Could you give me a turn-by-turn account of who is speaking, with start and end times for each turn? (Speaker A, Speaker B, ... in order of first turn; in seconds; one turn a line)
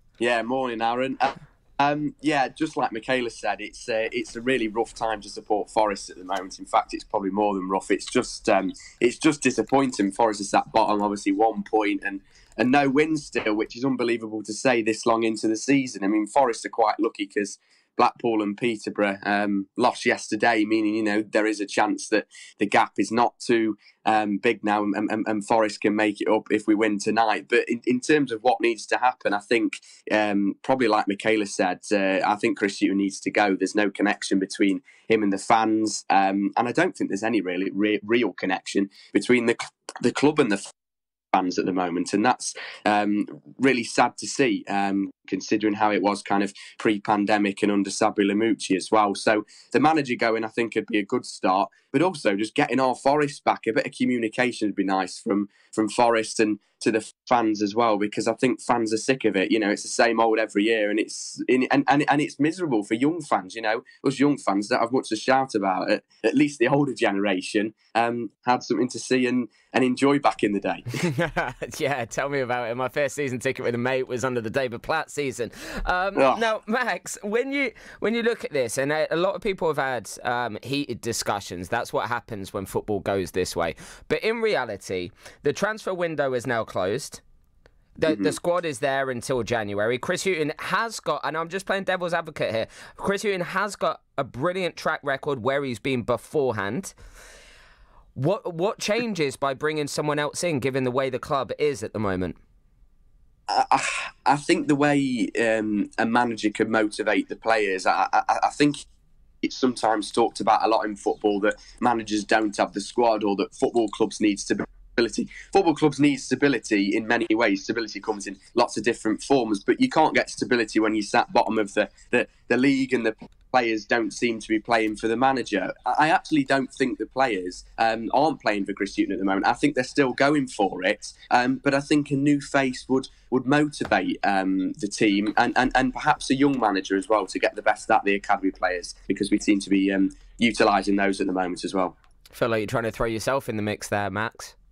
Speaker A: 0.2-40.6
Speaker A: 41.3-70.8
Speaker B: 71.0-87.2
Speaker A: 76.2-76.5
Speaker B: 88.0-96.9
Speaker A: 88.1-88.3
Speaker B: 98.2-102.4
Speaker A: 103.5-108.8
Speaker A: 109.4-142.0
Speaker B: 142.3-144.6